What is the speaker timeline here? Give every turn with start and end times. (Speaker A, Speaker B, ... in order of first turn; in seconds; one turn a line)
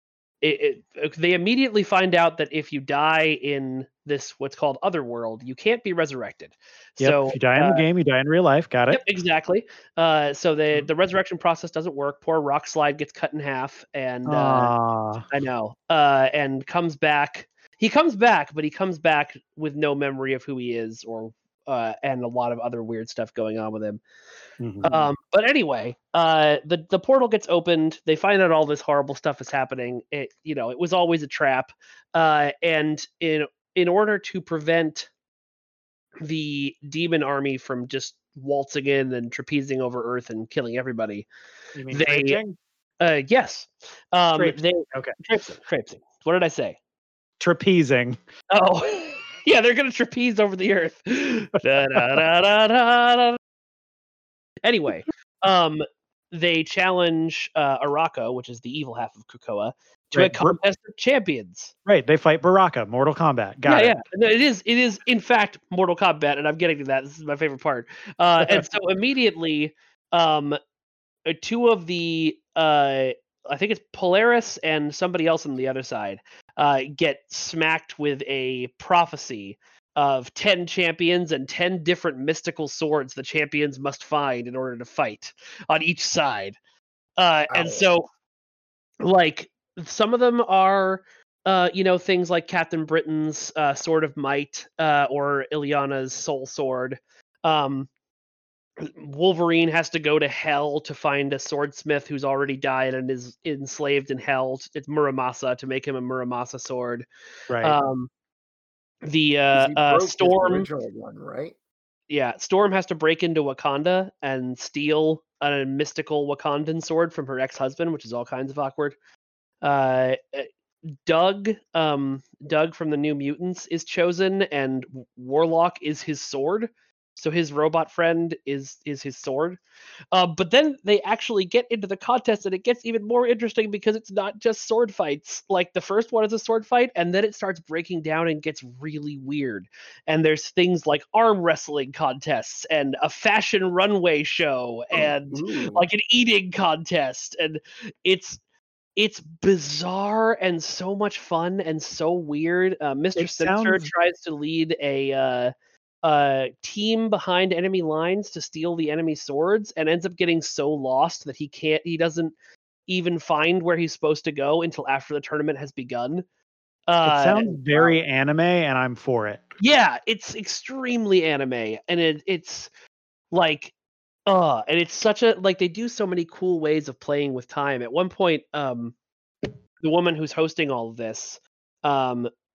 Speaker A: 0.4-7.8
Speaker B: 7.0-9.0
Speaker A: 8.9-14.7
Speaker B: 14.2-15.2
Speaker A: 15.3-24.0
Speaker B: 24.6-25.1
Speaker A: 24.8-35.1
Speaker A: 36.2-41.3
Speaker B: 41.7-42.6
Speaker A: 41.9-42.4
Speaker A: 43.0-46.8
Speaker B: 44.4-45.4
Speaker B: 47.4-48.2
Speaker A: 48.5-53.4
Speaker B: 51.9-52.2
Speaker A: 54.6-61.7
Speaker B: 60.1-60.6
Speaker B: 61.9-64.0
Speaker A: 63.6-70.6
Speaker A: 71.2-86.5
Speaker A: 87.2-88.0
Speaker C: 87.5-87.9
Speaker A: 89.0-97.9
Speaker A: 98.8-107.0
Speaker B: 107.5-107.8
Speaker A: 107.6-108.1
Speaker A: 109.0-110.7
Speaker C: 109.5-111.5
Speaker A: 112.1-119.0
Speaker A: 119.6-120.5
Speaker A: 121.0-129.6
Speaker A: 130.1-148.4
Speaker C: 144.9-145.9
Speaker A: 148.9-155.5
Speaker B: 153.2-153.9
Speaker A: 156.0-162.3
Speaker A: 162.9-166.2
Speaker A: 166.9-168.0
Speaker B: 167.0-169.5
Speaker A: 169.6-172.7
Speaker A: 173.3-173.7
Speaker A: 174.3-178.9
Speaker A: 179.8-182.3